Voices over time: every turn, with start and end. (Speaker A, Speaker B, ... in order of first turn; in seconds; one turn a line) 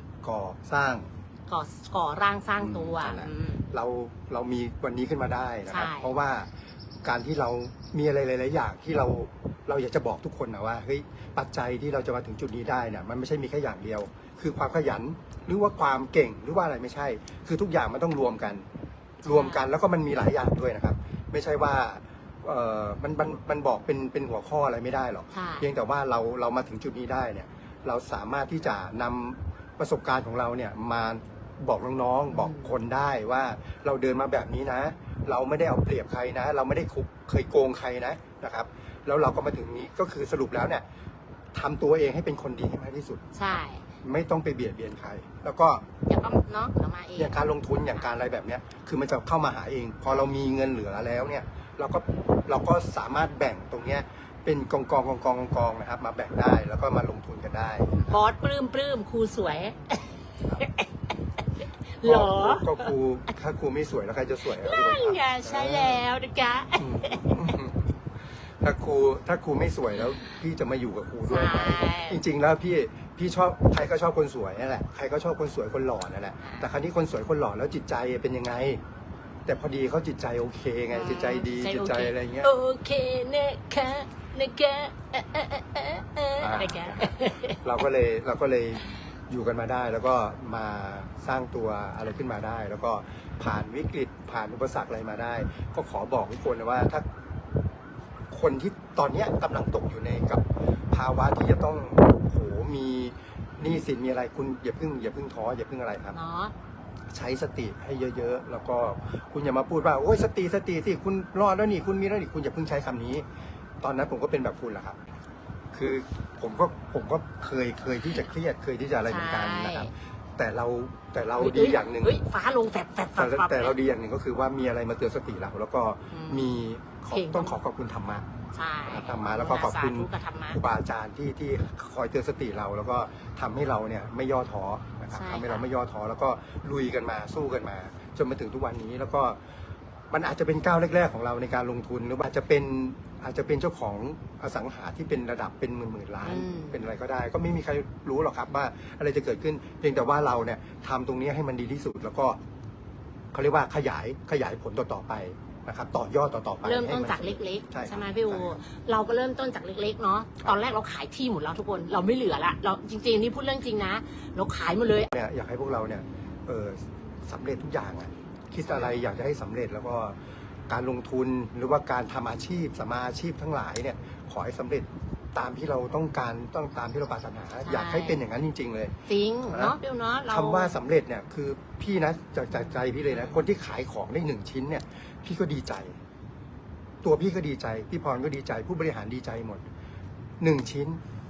Speaker A: 0.2-1.1
Speaker B: 1.5-3.6
Speaker A: 2.6-6.5
Speaker B: 5.7-6.1
Speaker A: 7.0-18.6
Speaker B: 19.2-19.6
Speaker A: 19.2-40.8
Speaker B: 25.3-25.7
Speaker B: 32.3-32.7
Speaker A: 41.5-43.2
Speaker B: 43.3-43.9
Speaker A: 44.0-45.9
Speaker B: 46.1-47.4
Speaker A: 47.2-58.1
Speaker B: 57.9-60.9
Speaker B: 62.0-62.9
Speaker A: 62.0-66.0
Speaker B: 64.6-67.6
Speaker A: 66.8-67.9
Speaker A: 68.6-78.8
Speaker B: 71.3-72.2
Speaker B: 76.4-76.7
Speaker A: 79.5-82.5
Speaker B: 80.9-87.6
Speaker A: 86.4-97.0
Speaker A: 98.3-106.2
Speaker B: 106.1-106.5
Speaker A: 107.1-113.2
Speaker A: 113.8-115.0
Speaker A: 115.7-122.2
Speaker B: 119.0-119.9
Speaker B: 121.4-123.7
Speaker A: 123.2-128.3
Speaker B: 126.1-126.5
Speaker B: 127.1-127.6
Speaker B: 128.5-130.6
Speaker A: 128.9-139.4
Speaker B: 135.1-135.7
Speaker A: 140.1-152.4
Speaker B: 146.2-146.8
Speaker A: 153.3-158.6
Speaker B: 156.6-165.1
Speaker A: 165.1-170.2
Speaker B: 168.6-169.0
Speaker A: 170.7-178.9
Speaker B: 177.6-178.2
Speaker B: 179.1-180.8
Speaker A: 179.5-179.8
Speaker A: 180.3-186.0
Speaker B: 183.1-183.4
Speaker A: 187.0-189.6
Speaker A: 190.4-191.0